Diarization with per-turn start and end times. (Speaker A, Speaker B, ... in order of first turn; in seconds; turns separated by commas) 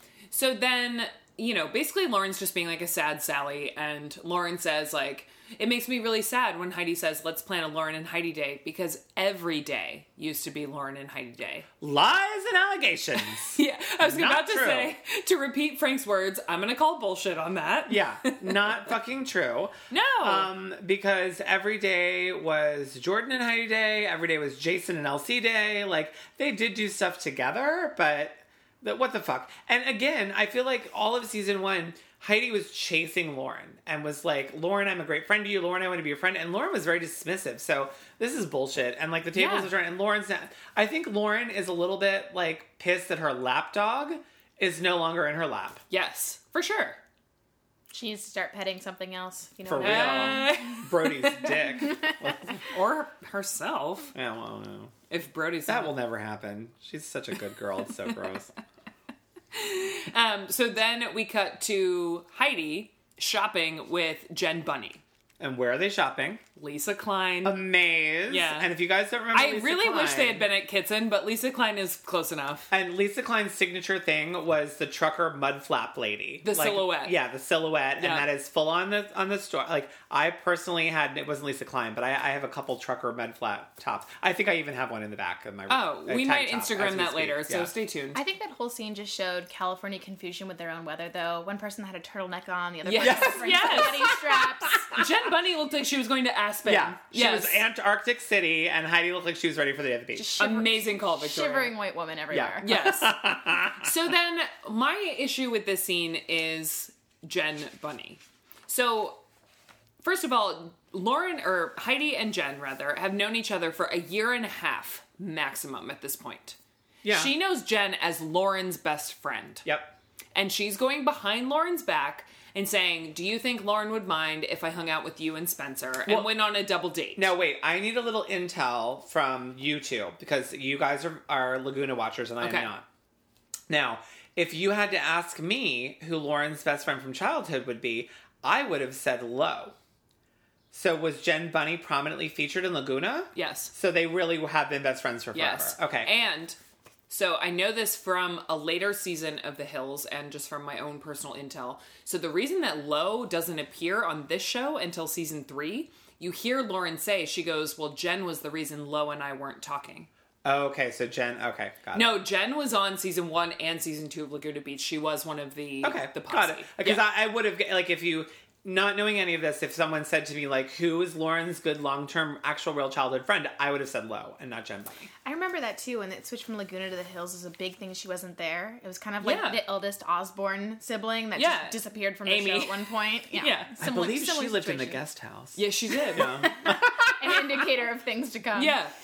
Speaker A: 0.3-11.7, Speaker B: 11.8-14.9, Speaker A: 13.5-18.8, Speaker B: 17.9-45.8, Speaker A: 19.9-20.5, Speaker A: 39.3-39.7, Speaker A: 45.9-47.0, Speaker C: 47.9-50.6, Speaker B: 49.6-52.7, Speaker A: 49.8-51.7, Speaker A: 52.6-54.1, Speaker B: 54.1-55.0, Speaker A: 55.1-56.0, Speaker B: 55.7-58.5, Speaker A: 59.5-65.0, Speaker B: 65.4-66.4, Speaker A: 66.6-67.6, Speaker B: 67.4-70.5, Speaker A: 68.3-68.7, Speaker A: 69.3-72.7, Speaker B: 72.7-87.7, Speaker A: 76.4-77.2, Speaker A: 78.0-78.3, Speaker A: 85.7-88.2, Speaker C: 88.1-95.0, Speaker A: 92.8-97.7, Speaker B: 93.0-95.1, Speaker B: 96.7-100.3, Speaker C: 100.2-102.7, Speaker A: 100.4-101.8, Speaker B: 102.3-104.1, Speaker A: 102.6-109.2, Speaker A: 110.0-119.7, Speaker B: 117.0-117.3, Speaker B: 119.7-120.0, Speaker A: 120.3-127.3, Speaker B: 127.2-132.9, Speaker A: 132.4-132.7, Speaker B: 133.7-139.8, Speaker B: 140.7-146.1, Speaker A: 143.4-143.7, Speaker A: 145.3-146.6, Speaker A: 147.1-160.1, Speaker B: 160.4-162.2, Speaker A: 161.9-167.1, Speaker B: 165.8-175.1, Speaker C: 175.2-185.0, Speaker A: 179.2-179.6, Speaker A: 181.4-183.8, Speaker B: 183.8-187.1, Speaker A: 185.6-186.5, Speaker C: 186.2-188.8, Speaker A: 188.6-188.9